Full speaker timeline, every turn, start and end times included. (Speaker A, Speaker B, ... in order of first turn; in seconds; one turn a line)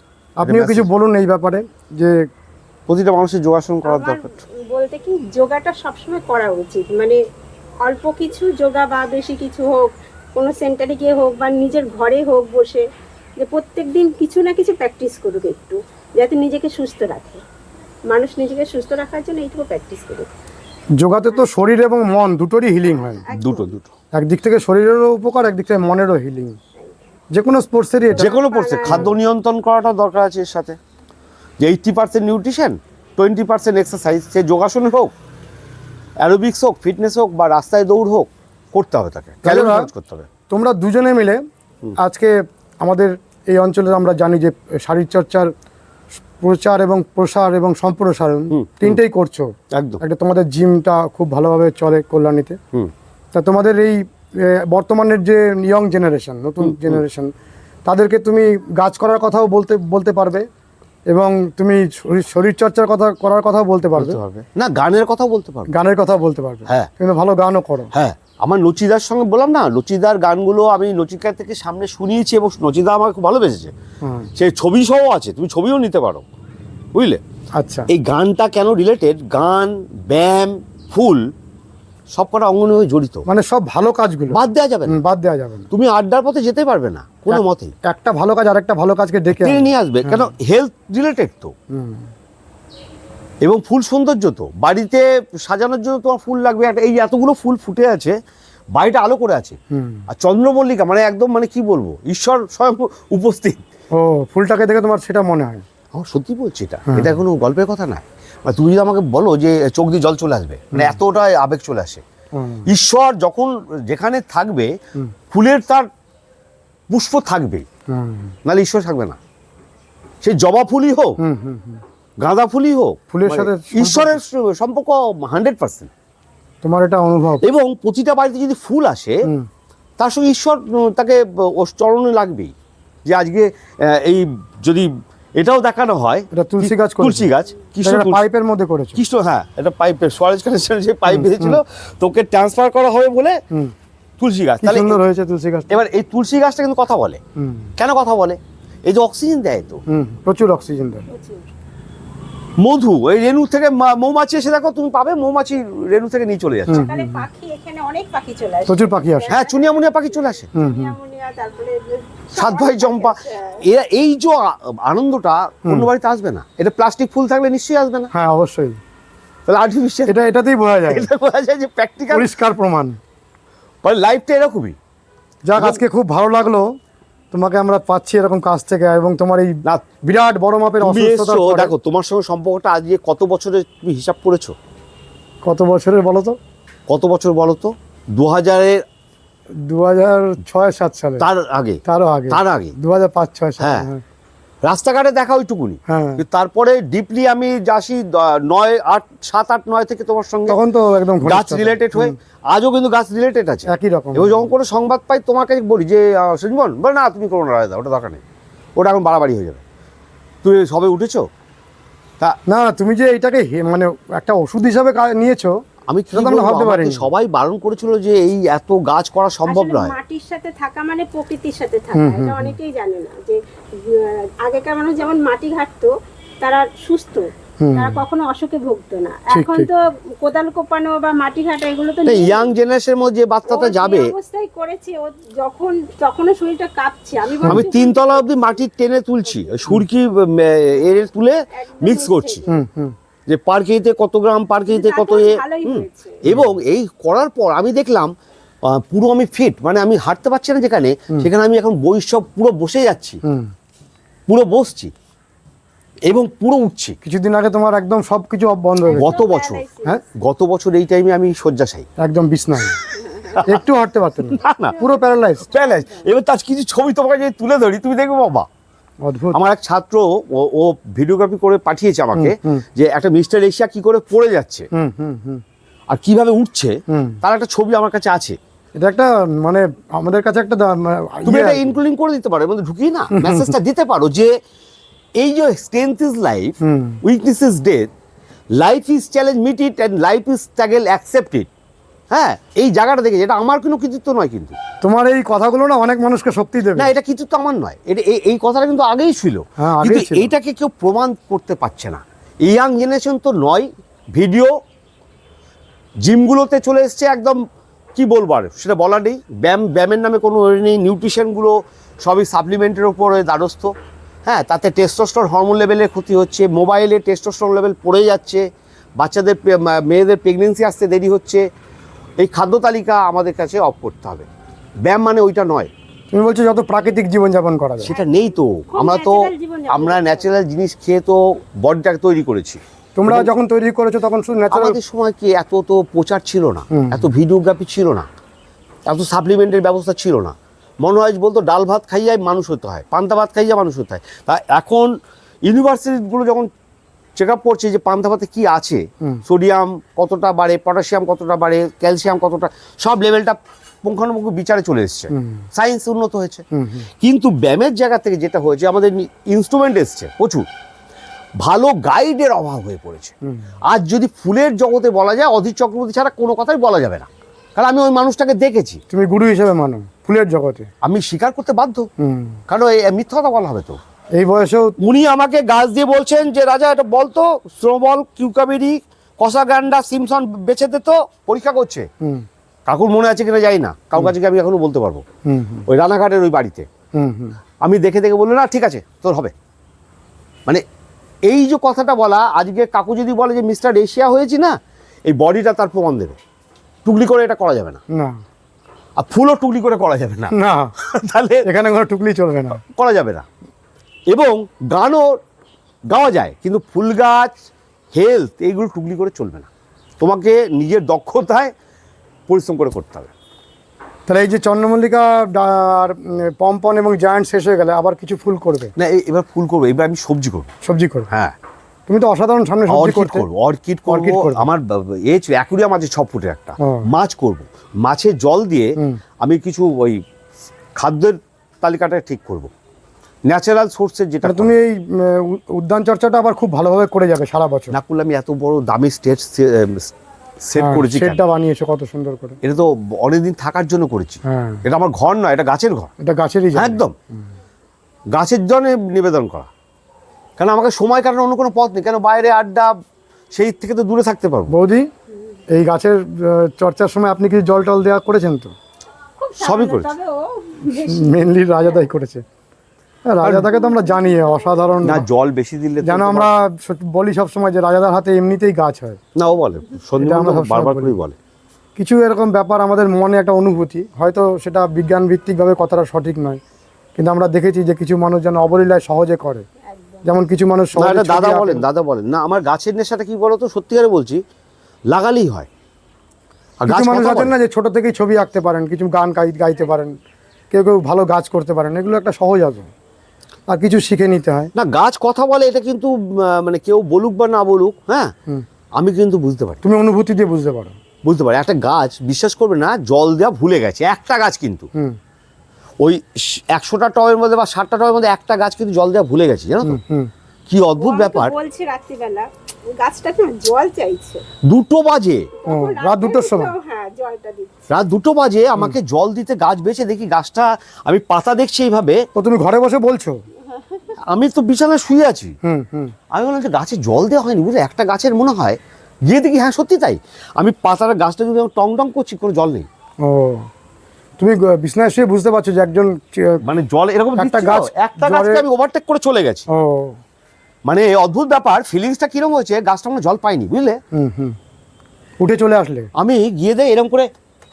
Speaker A: 0.4-2.3
Speaker B: 0.4-0.9
Speaker B: 2.9-4.2
Speaker C: 3.9-7.2
Speaker C: 7.8-12.9
Speaker C: 13.4-17.4
Speaker C: 18.1-20.3
Speaker A: 21.0-23.2
Speaker C: 23.1-23.7
Speaker B: 23.3-23.9
Speaker A: 24.1-26.6
Speaker A: 27.3-29.1
Speaker C: 28.1-29.1
Speaker B: 28.1-30.8
Speaker B: 31.6-35.1
Speaker B: 36.2-40.3
Speaker A: 39.4-39.9
Speaker A: 40.5-41.4
Speaker A: 42.0-45.5
Speaker A: 46.4-52.6
Speaker B: 48.5-49.0
Speaker B: 49.7-50.0
Speaker A: 53.3-57.3
Speaker B: 56.6-57.0
Speaker A: 57.9-60.5
Speaker A: 61.1-64.2
Speaker B: 64.0-65.7
Speaker A: 65.7-67.9
Speaker B: 67.9-73.7
Speaker A: 74.0-74.3
Speaker B: 74.3-76.2
Speaker B: 76.9-77.2
Speaker A: 77.5-77.9
Speaker B: 77.9-81.3
Speaker B: 82.1-83.2
Speaker A: 83.3-85.7
Speaker B: 84.3-85.0
Speaker B: 85.7-87.7
Speaker A: 87.3-90.3
Speaker B: 89.3-91.5
Speaker A: 91.7-92.1
Speaker B: 93.4-98.2
Speaker B: 98.7-99.6
Speaker A: 99.7-100.1
Speaker B: 100.1-103.6
Speaker A: 103.9-105.6
Speaker B: 105.9-112.0
Speaker A: 106.9-107.2
Speaker A: 110.7-111.0
Speaker A: 112.3-112.7
Speaker B: 112.7-114.8
Speaker B: 115.3-115.9
Speaker B: 116.9-117.7
Speaker A: 117.9-118.3
Speaker B: 118.5-119.2
Speaker B: 120.2-121.2
Speaker A: 121.2-121.8
Speaker B: 122.2-125.9
Speaker A: 123.1-124.2
Speaker A: 126.6-127.4
Speaker B: 127.4-129.3
Speaker B: 130.0-132.5
Speaker B: 133.1-138.2
Speaker A: 136.3-137.3
Speaker A: 137.8-139.0
Speaker B: 138.9-143.4
Speaker A: 141.1-141.6
Speaker B: 144.2-145.0
Speaker A: 144.6-145.8
Speaker B: 145.7-147.2
Speaker A: 147.3-147.7
Speaker B: 147.8-149.8
Speaker A: 149.9-151.1
Speaker C: 151.1-151.5
Speaker B: 152.6-156.8
Speaker A: 156.7-157.2
Speaker C: 156.7-163.6
Speaker A: 158.7-159.3
Speaker B: 159.3-160.5
Speaker A: 160.6-160.9
Speaker B: 162.3-168.1
Speaker A: 168.1-168.8
Speaker B: 169.5-170.2
Speaker A: 170.1-171.1
Speaker B: 170.9-172.3
Speaker A: 172.1-173.0
Speaker B: 173.8-174.8
Speaker A: 175.5-176.7
Speaker A: 177.3-181.7
Speaker B: 180.8-184.6
Speaker A: 185.4-186.4
Speaker B: 186.9-188.8
Speaker A: 189.6-191.2
Speaker B: 191.2-192.8
Speaker A: 191.8-194.0
Speaker B: 193.6-193.9
Speaker B: 194.6-200.6
Speaker A: 195.9-196.2
Speaker A: 200.5-202.1
Speaker B: 201.2-208.2
Speaker A: 203.7-204.5
Speaker B: 208.8-209.6
Speaker B: 210.4-211.3
Speaker A: 212.5-215.6
Speaker B: 215.9-219.9
Speaker A: 216.1-217.1
Speaker C: 219.5-232.5
Speaker A: 221.9-222.5
Speaker A: 227.6-228.0
Speaker A: 229.3-229.7
Speaker B: 232.1-234.1
Speaker C: 233.5-238.3
Speaker A: 237.4-237.7
Speaker B: 237.5-242.4
Speaker C: 241.5-242.5
Speaker A: 242.5-242.9
Speaker B: 243.3-253.2
Speaker C: 244.7-246.2
Speaker A: 253.2-253.5
Speaker B: 254.3-254.9
Speaker B: 256.1-257.0
Speaker A: 257.0-259.2
Speaker C: 258.9-260.0
Speaker B: 258.9-261.9
Speaker A: 262.0-262.8
Speaker B: 262.9-263.6
Speaker C: 263.1-263.3
Speaker A: 263.4-265.4
Speaker B: 264.3-264.8
Speaker C: 264.8-266.1
Speaker B: 265.5-268.5
Speaker A: 269.0-269.4
Speaker B: 269.3-274.7
Speaker A: 272.1-272.6
Speaker A: 274.7-275.4
Speaker B: 275.9-278.4
Speaker A: 276.9-277.2
Speaker A: 278.8-281.8
Speaker B: 281.2-284.4
Speaker A: 283.1-283.6
Speaker B: 285.2-287.9
Speaker A: 286.6-287.0
Speaker B: 288.6-291.5
Speaker B: 292.1-294.6
Speaker A: 294.8-296.9
Speaker B: 296.8-304.5
Speaker A: 299.6-300.3
Speaker B: 306.0-307.4
Speaker B: 307.9-313.7
Speaker B: 314.2-318.5
Speaker B: 319.0-321.4
Speaker B: 322.2-324.3
Speaker B: 324.8-325.7
Speaker A: 326.1-327.9
Speaker B: 327.8-333.3
Speaker C: 327.9-328.2
Speaker C: 328.7-330.3
Speaker A: 332.9-334.8
Speaker B: 334.5-338.1
Speaker A: 336.7-337.1
Speaker B: 338.9-344.9
Speaker B: 345.4-346.5
Speaker B: 347.1-356.4
Speaker A: 355.1-355.4
Speaker A: 356.5-356.9
Speaker B: 357.0-360.4
Speaker B: 361.4-363.1
Speaker B: 363.7-368.8
Speaker A: 368.9-370.7
Speaker B: 370.8-371.9
Speaker A: 372.0-372.4
Speaker B: 372.5-373.8
Speaker A: 374.1-374.8
Speaker B: 374.8-381.9
Speaker A: 382.0-382.2
Speaker B: 382.7-385.0
Speaker A: 385.2-385.6
Speaker B: 385.7-386.7
Speaker A: 386.9-387.4
Speaker B: 387.6-389.3
Speaker B: 391.2-396.2
Speaker B: 396.8-397.8
Speaker A: 397.9-398.2
Speaker B: 399.0-401.5
Speaker A: 400.3-400.7
Speaker A: 401.4-402.6
Speaker B: 402.6-403.3
Speaker B: 404.1-405.2
Speaker B: 405.9-407.3
Speaker B: 407.9-409.5
Speaker B: 410.0-411.5
Speaker B: 412.3-413.1
Speaker A: 414.1-418.7
Speaker B: 418.8-420.5
Speaker A: 420.6-421.1
Speaker B: 421.1-421.3
Speaker A: 421.9-423.3
Speaker B: 422.7-430.0
Speaker A: 423.9-424.5
Speaker A: 426.6-426.9
Speaker B: 430.8-432.5
Speaker B: 433.2-434.5
Speaker A: 434.2-437.8
Speaker B: 437.7-441.2
Speaker A: 440.6-442.4
Speaker B: 442.4-445.9
Speaker A: 444.2-444.6
Speaker A: 446.0-446.8
Speaker B: 446.5-446.9
Speaker B: 448.1-449.5
Speaker B: 450.4-452.8
Speaker B: 453.3-454.5
Speaker A: 454.5-454.9
Speaker A: 455.5-458.5
Speaker C: 459.2-461.7
Speaker B: 459.4-459.9
Speaker A: 460.7-462.2
Speaker A: 463.1-465.1
Speaker B: 463.2-463.5
Speaker C: 463.4-464.7
Speaker B: 464.8-466.3
Speaker A: 465.8-469.0
Speaker B: 469.1-471.1
Speaker A: 470.0-470.9
Speaker A: 471.8-476.4
Speaker A: 476.9-479.5
Speaker C: 479.7-480.1
Speaker A: 480.0-481.6
Speaker B: 480.8-484.2
Speaker B: 484.9-485.5
Speaker B: 486.6-487.3
Speaker A: 486.7-490.0
Speaker A: 490.5-492.7
Speaker A: 493.5-494.5
Speaker B: 494.5-498.1
Speaker B: 498.8-499.6
Speaker A: 499.6-500.8
Speaker B: 501.0-504.7
Speaker B: 505.8-509.8
Speaker A: 509.6-510.1
Speaker B: 510.5-511.3
Speaker C: 510.8-514.2
Speaker B: 514.4-515.3
Speaker C: 515.4-517.7
Speaker A: 515.5-516.5
Speaker B: 517.7-522.0
Speaker A: 522.1-523.2
Speaker C: 523.4-524.0
Speaker B: 524.1-525.3
Speaker A: 525.4-525.9
Speaker B: 526.1-532.7
Speaker A: 533.0-533.5
Speaker A: 534.2-536.4
Speaker B: 536.4-539.5
Speaker A: 537.2-538.4
Speaker A: 539.5-540.0
Speaker B: 540.6-543.8
Speaker A: 543.9-544.4
Speaker A: 545.2-545.9
Speaker B: 546.0-547.1